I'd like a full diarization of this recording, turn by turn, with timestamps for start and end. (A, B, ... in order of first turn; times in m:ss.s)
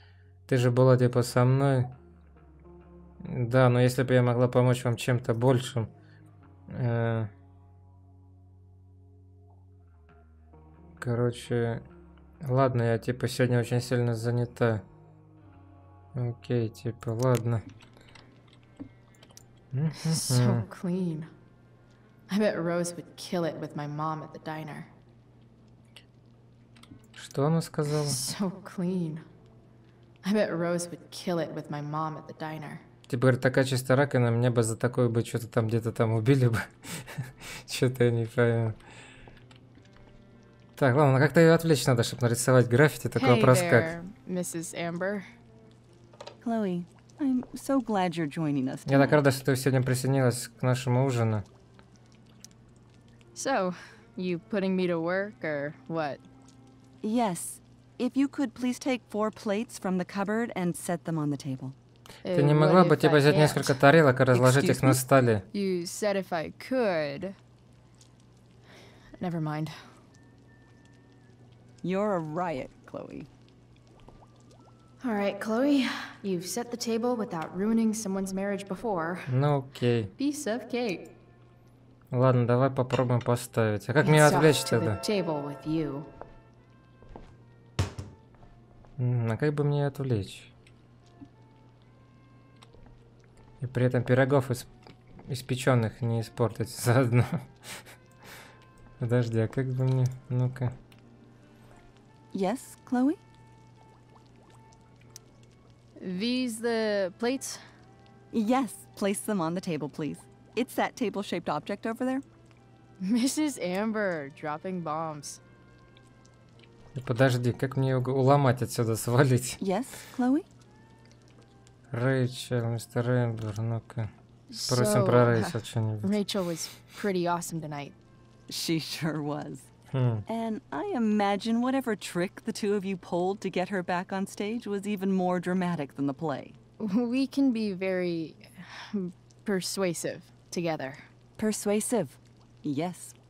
0:00.5-0:02.0 A
0:03.2-0:05.9 A
0:06.7-0:07.3 A
0:11.0-0:11.8 A
0:12.4-0:14.8 A
0:16.2-0:17.6 A
0:19.7-0:20.6 A
0:20.0-0:21.3 B
0:22.3-0:24.9 B
0:27.2-0:28.2 A
0:27.9-0:29.2 B
0:30.2-0:32.8 B
0:33.1-0:38.8 A
0:40.8-0:44.0 A
0:43.2-0:45.3 B
0:46.4-0:49.2 C
0:48.9-0:51.4 A
0:53.4-0:56.2 B
0:57.0-1:01.8 C
1:02.2-1:03.8 B
1:02.3-1:05.4 A
1:04.3-1:05.0 C
1:05.5-1:07.4 B
1:09.2-1:09.8 B
1:11.8-1:13.3 C
1:15.0-1:19.3 B
1:19.3-1:20.1 A
1:20.2-1:21.1 B
1:22.1-1:25.0 A
1:24.0-1:26.1 B
1:29.0-1:30.5 A
1:33.6-1:34.7 A
1:35.3-1:37.7 A
1:39.0-1:40.7 A
1:42.3-1:43.2 C
1:46.0-1:47.6 B
1:48.3-1:52.2 C
1:53.0-1:55.4 B
1:57.0-1:59.6 A
1:59.6-2:00.5 C
2:01.9-2:04.1 A
2:04.5-2:08.0 B
2:04.7-2:06.2 A
2:08.5-2:09.7 C
2:09.9-2:10.2 A
2:10.3-2:16.6 C
2:16.8-2:21.1 B
2:21.4-2:23.2 C